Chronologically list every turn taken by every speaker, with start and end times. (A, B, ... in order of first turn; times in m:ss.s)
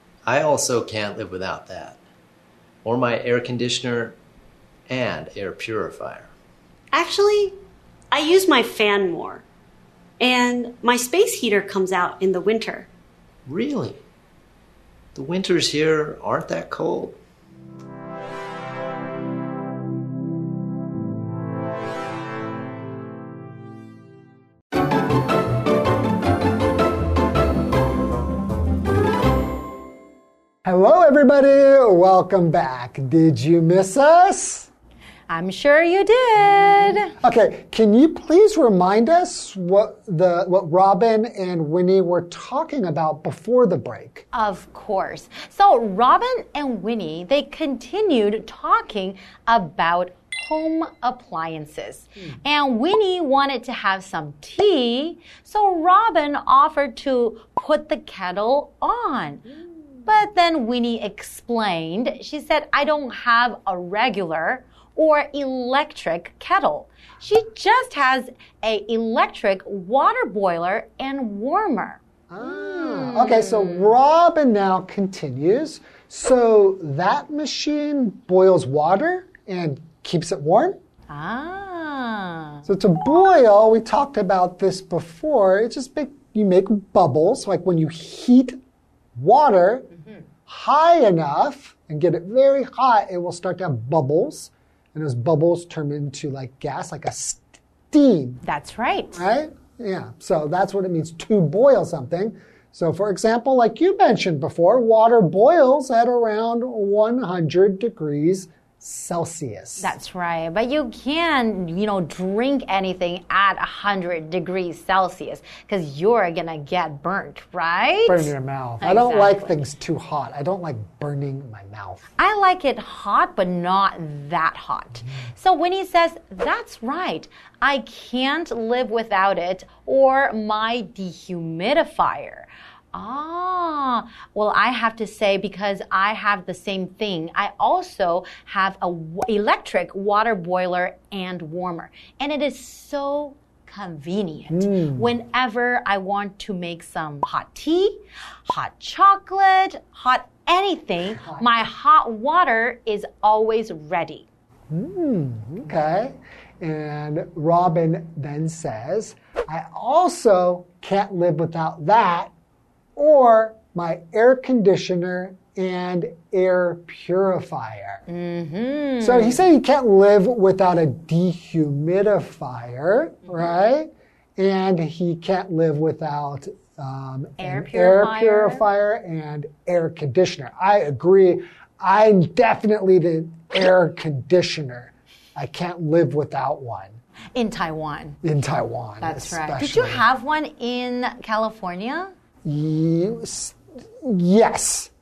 0:00.3-0:02.0 A
0:02.8-0:04.2 A
0:04.9-0:06.3 A
0:06.9-0:07.6 B
0:08.1-0:09.4 B
0:10.2-0:12.9 B
0:13.5-0:14.0 A
0:15.2-0:17.1 A
0:30.6-0:34.7 C
0:35.3-0:37.1 D
0:37.2-0:44.2 C
0:44.3-0:59.5 D
1:00.0-1:13.9 D
1:12.3-1:20.8 C
1:21.1-1:22.6 D
1:22.6-1:28.6 C
1:29.2-1:29.9 C
1:30.5-1:38.4 C
1:38.4-1:39.2 D
1:39.1-1:49.9 C
1:49.8-1:59.5 D
1:58.1-2:02.0 C
2:02.2-2:34.2 D
2:24.5-2:25.1 C
2:31.2-2:31.5 C
2:34.7-2:42.3 C
2:43.0-2:48.0 C
2:48.1-2:49.4 D
2:49.0-3:07.0 C
2:57.4-2:58.6 D
3:07.3-3:08.2 D
3:08.2-3:10.0 C
3:09.0-3:12.1 D
3:12.4-3:14.9 C